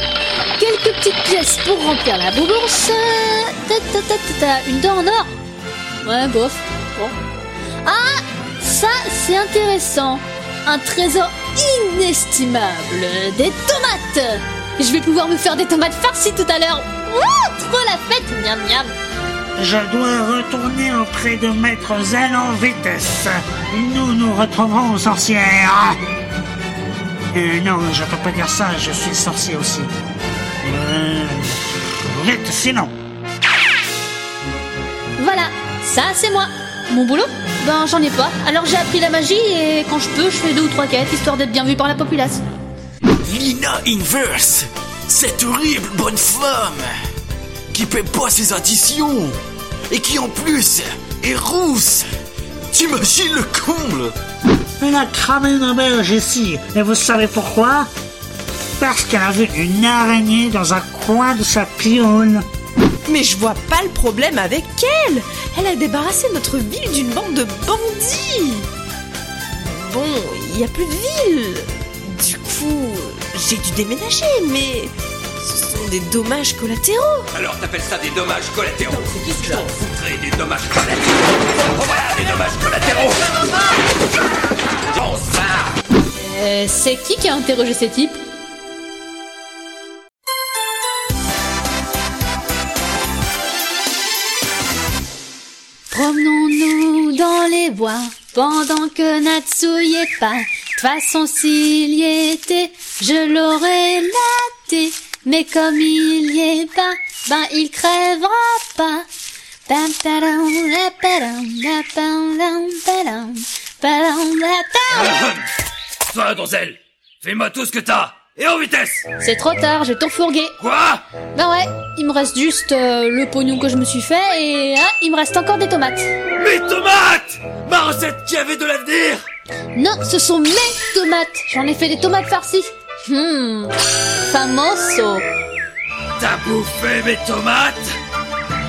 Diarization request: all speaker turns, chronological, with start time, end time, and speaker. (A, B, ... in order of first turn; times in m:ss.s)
0:00.6-0:05.3 A
0:06.0-0:07.2 A
0:07.8-0:18.9 A
0:19.6-0:26.0 B
0:27.3-0:29.9 B
0:30.6-0:32.9 B
0:35.2-0:42.4 A
0:43.4-0:44.6 C
0:48.2-0:49.0 C
0:51.2-0:52.0 C
0:52.7-0:54.1 C
0:54.8-0:57.9 B
0:58.8-1:02.4 B
1:03.1-1:08.7 D
1:09.5-1:17.3 D
1:17.4-1:23.6 E
1:24.9-1:25.7 E
1:26.2-1:28.2 A
1:35.9-1:49.1 A
1:49.7-1:55.2 A
1:54.9-1:55.5 E
1:56.1-1:59.1 E
1:59.2-2:00.6 A
2:00.6-2:01.0 E
2:01.4-2:06.1 A
2:06.4-2:09.2 E
2:09.8-2:13.8 A
2:14.3-2:15.3 A
2:16.2-2:17.9 E